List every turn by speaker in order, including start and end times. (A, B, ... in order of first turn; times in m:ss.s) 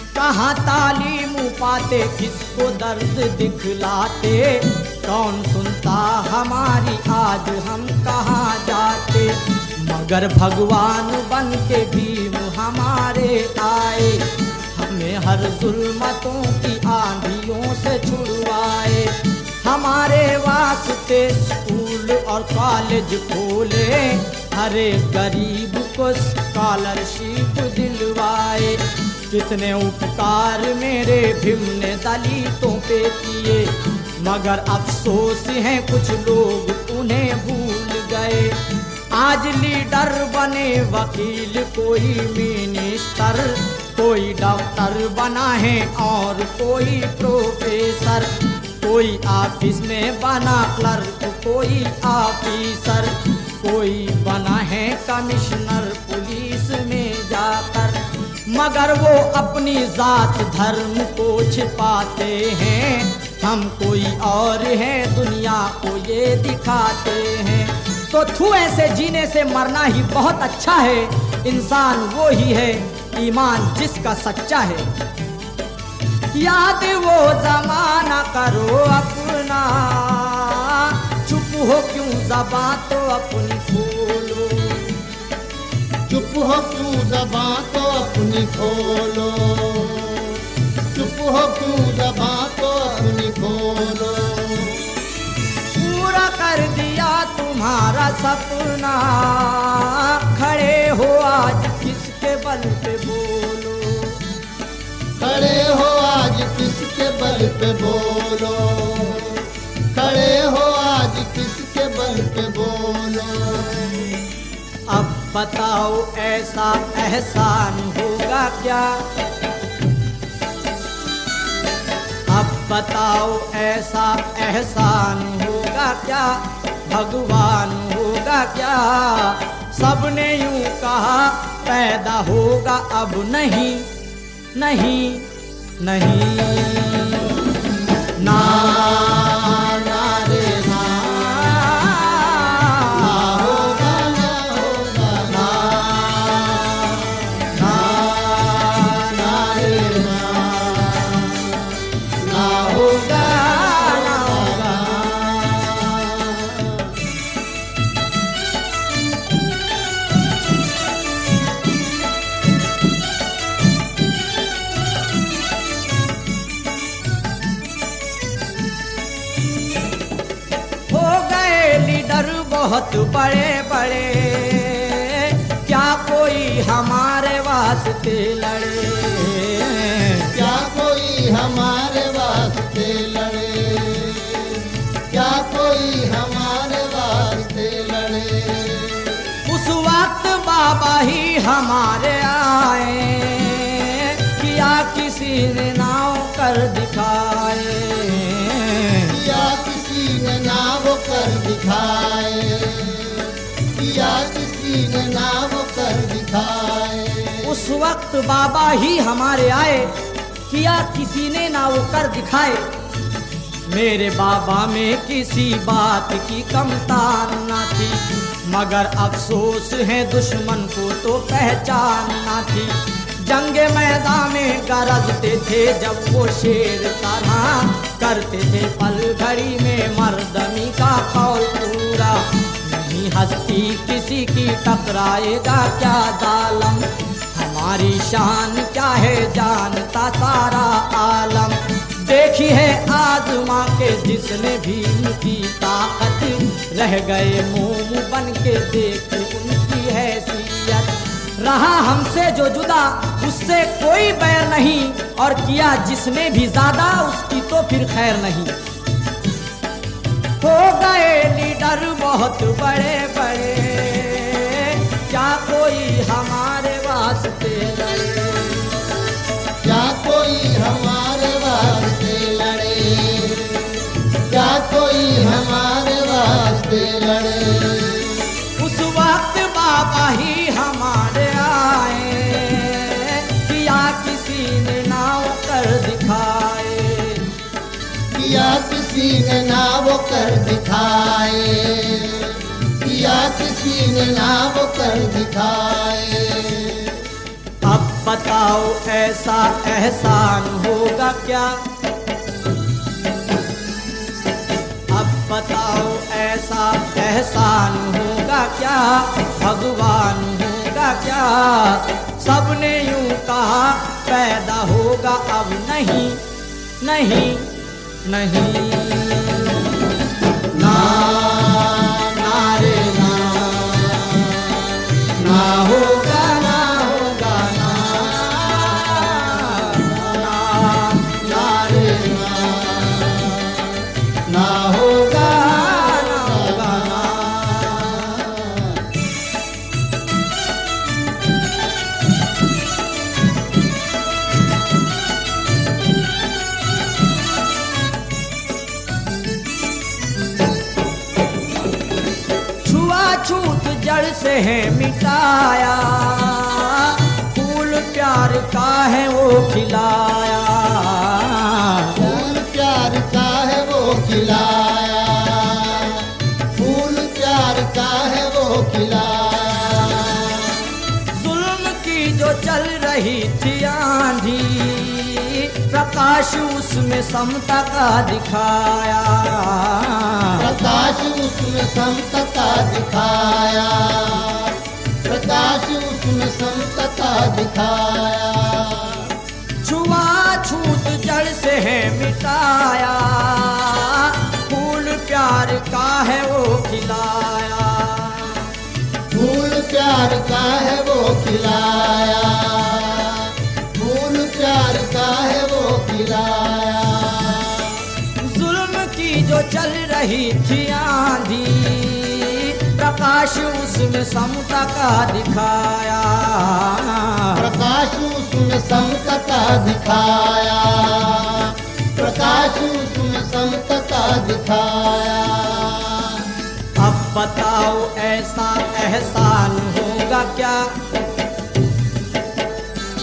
0:00.2-0:38.6 A
0:39.1-0:48.3 A
0:48.8-1:14.9 A
1:16.3-1:24.9 A
1:26.1-1:30.3 B
1:30.9-1:34.8 B
1:35.8-1:44.2 A
1:45.2-1:54.0 B
1:54.9-1:59.0 A
2:02.3-2:13.9 A
2:14.6-2:15.3 A
2:15.8-2:17.3 A
2:18.2-2:18.7 A
2:18.2-2:21.3 B
2:21.2-2:23.7 A
2:22.9-2:31.5 B
2:32.2-2:36.4 B
2:32.8-2:34.9 A
2:50.9-3:00.3 A
3:00.3-3:04.6 B
3:05.1-3:09.1 B
3:09.5-3:19.2 A
3:19.1-3:23.2 B
3:23.8-3:27.5 B
3:27.4-3:29.9 A
3:30.5-3:32.6 A
3:33.7-4:18.6 A
4:20.4-4:28.7 A
4:29.6-4:33.7 B
4:34.3-4:38.2 B
4:38.6-4:47.3 A
4:48.2-4:52.3 B
4:52.8-4:56.9 B
4:57.6-5:01.6 A
5:04.9-5:16.2 A
5:16.8-5:17.5 A
5:18.1-5:19.7 A
5:20.5-5:24.1 A
5:25.2-5:32.2 A
5:31.9-5:33.3 B
5:34.3-5:34.6 B
5:34.4-5:38.1 A
5:36.2-5:36.8 B
5:38.1-5:38.3 B
5:52.6-6:02.1 A
6:02.0-6:06.0 B
6:06.6-6:10.6 B
6:11.2-6:20.5 A
6:20.4-6:29.1 B
6:29.6-6:38.5 A
6:39.1-6:47.7 B
6:48.2-6:57.5 A
6:57.4-7:06.2 B
7:06.8-7:10.8 A